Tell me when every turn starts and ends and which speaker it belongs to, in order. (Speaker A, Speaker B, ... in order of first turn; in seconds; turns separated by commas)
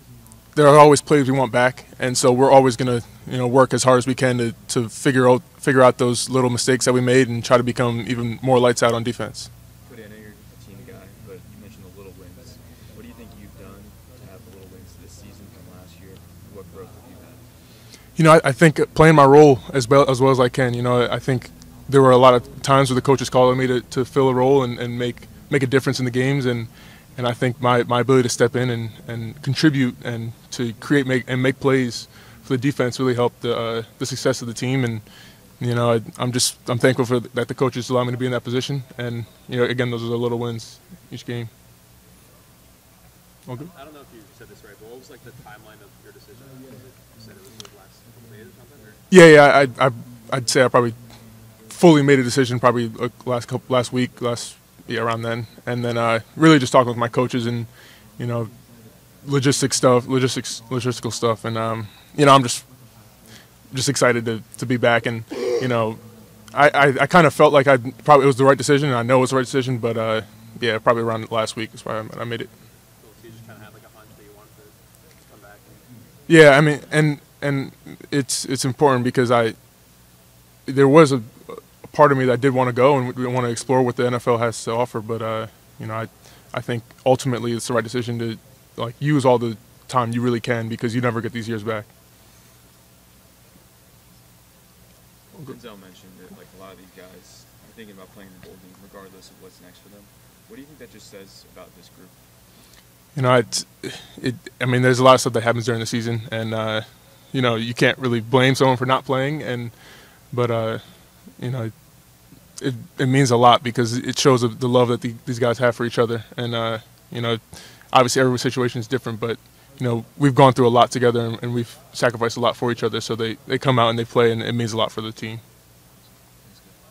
Speaker A: 0.5-9.5, Speaker B: 9.8-17.7, Speaker A: 18.1-35.0, Speaker A: 35.6-41.5, Speaker C: 43.5-49.0, Speaker A: 49.1-58.5, Speaker A: 59.2-63.0, Speaker A: 63.7-72.5, Speaker C: 73.0-75.9, Speaker A: 76.3-91.8, Speaker B: 95.4-102.2, Speaker A: 103.1-125.4